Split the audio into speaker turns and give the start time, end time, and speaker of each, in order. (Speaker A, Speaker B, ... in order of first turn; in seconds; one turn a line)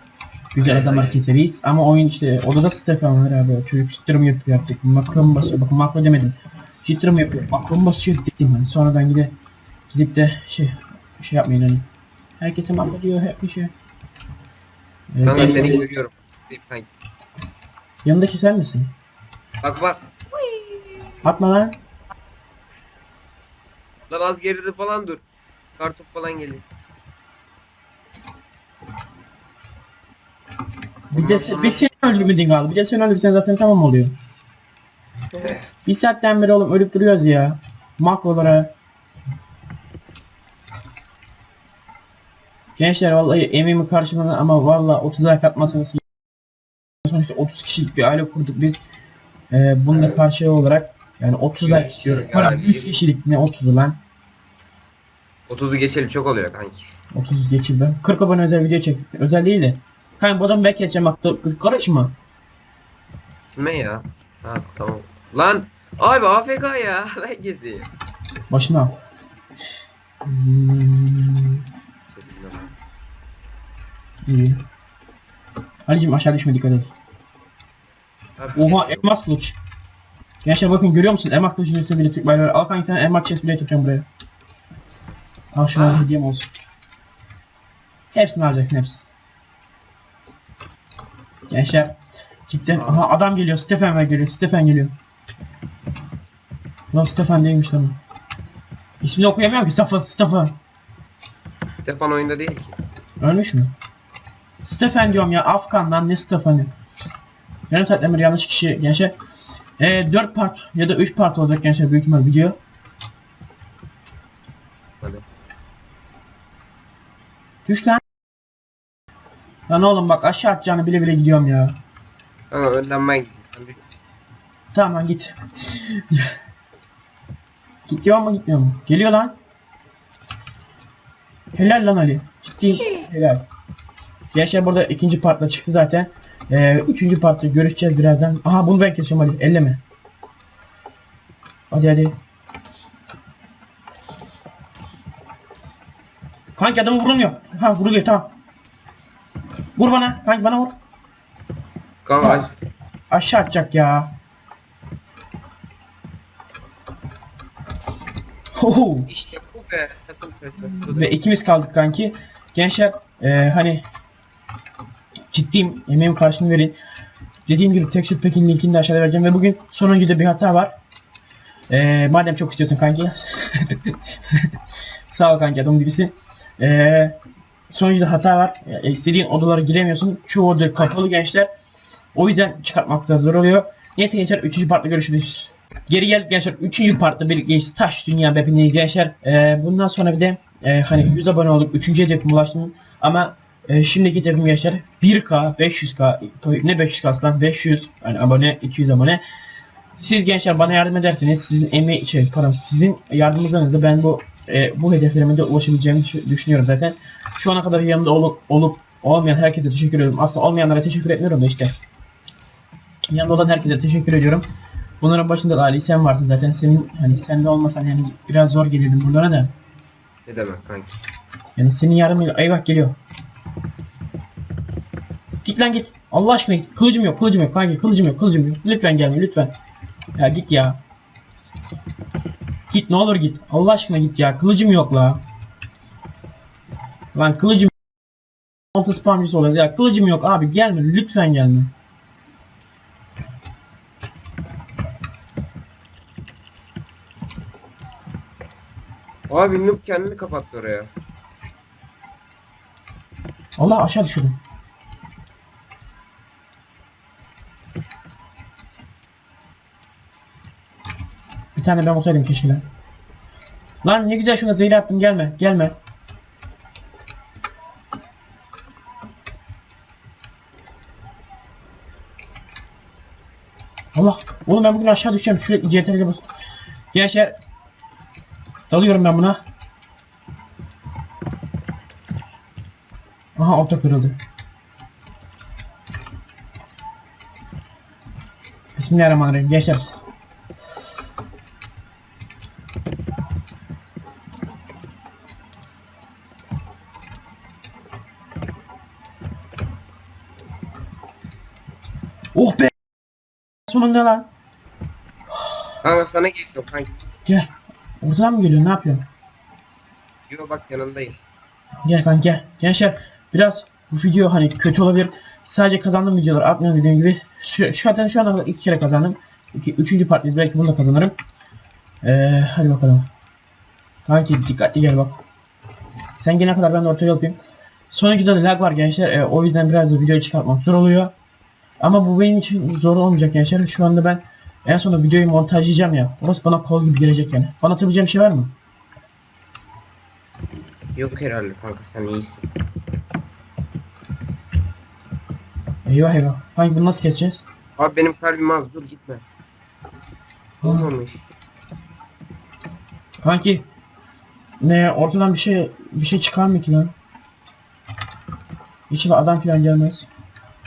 Speaker A: 0.5-9.3
Speaker B: 0.6-1.2
Speaker A: 9.9-11.9
Speaker A: 12.4-13.7
Speaker A: 15.1-15.8
Speaker B: 15.2-16.9
Speaker A: 18.0-18.9
Speaker B: 19.6-20.6
Speaker A: 21.2-21.8
Speaker B: 24.1-25.2
Speaker B: 25.8-26.6
Speaker B: 31.1-31.8
Speaker A: 31.1-34.1
Speaker B: 35.3-35.7
Speaker A: 35.9-38.7
Speaker A: 42.8-46.0
Speaker A: 47.0-48.8
Speaker A: 49.5-54.0
Speaker B: 49.9-50.2
Speaker B: 51.6-53.0
Speaker B: 55.5-56.9
Speaker A: 57.1-62.1
Speaker B: 63.5-67.9
Speaker A: 68.5-69.0
Speaker A: 70.2-71.6
Speaker B: 72.1-72.7
Speaker A: 74.3-74.6
Speaker A: 75.9-76.9
Speaker B: 78.4-79.1
Speaker A: 78.5-79.6
Speaker A: 80.4-84.1
Speaker A: 85.5-86.5
Speaker B: 85.7-86.1
Speaker A: 88.1-89.0
Speaker A: 91.5-92.0
Speaker A: 92.5-94.9
Speaker B: 92.8-93.1
Speaker A: 96.9-98.0
Speaker A: 99.0-100.5
Speaker B: 101.7-102.8
Speaker A: 103.2-103.7
Speaker A: 104.7-106.7
Speaker A: 107.7-109.1
Speaker A: 109.8-112.6
Speaker A: 117.7-118.0
Speaker A: 119.7-121.8
Speaker B: 122.5-123.8
Speaker A: 124.7-126.3
Speaker A: 127.9-129.4
Speaker A: 131.6-133.4
Speaker A: 134.3-139.8
Speaker A: 141.7-142.2
Speaker A: 146.6-148.3
Speaker A: 149.8-150.7
Speaker B: 152.1-152.5
Speaker A: 153.1-154.1
Speaker A: 158.6-159.1
Speaker B: 159.1-161.1
Speaker A: 160.8-163.8
Speaker A: 165.3-166.8
Speaker A: 167.5-170.7
Speaker A: 171.7-174.5
Speaker A: 175.1-177.2
Speaker A: 177.7-181.5
Speaker A: 182.2-199.2
Speaker A: 200.0-211.8
Speaker A: 213.1-214.4
Speaker A: 215.0-219.5
Speaker B: 220.3-221.0
Speaker A: 221.6-223.0
Speaker A: 225.4-229.5
Speaker A: 230.2-230.8
Speaker A: 232.7-235.2
Speaker A: 237.1-237.7
Speaker A: 238.7-241.7
Speaker B: 249.3-250.9
Speaker A: 253.6-254.4
Speaker A: 261.6-262.6
Speaker A: 263.8-265.8
Speaker A: 273.9-276.3
Speaker A: 276.9-277.4
Speaker A: 278.7-279.4
Speaker A: 283.4-284.2
Speaker A: 288.8-290.0
Speaker A: 302.3-302.8
Speaker A: 303.7-304.3
Speaker B: 305.8-306.9
Speaker A: 308.0-309.0
Speaker B: 310.3-311.2
Speaker A: 311.9-321.1
Speaker A: 322.0-323.1
Speaker A: 324.1-325.2
Speaker A: 326.2-327.4
Speaker A: 327.9-331.1
Speaker A: 331.8-338.5
Speaker B: 340.9-342.5
Speaker A: 345.9-347.4
Speaker B: 347.8-349.2
Speaker A: 350.6-350.9
Speaker B: 350.6-351.2
Speaker A: 353.2-353.7
Speaker A: 354.6-356.9
Speaker A: 358.9-360.1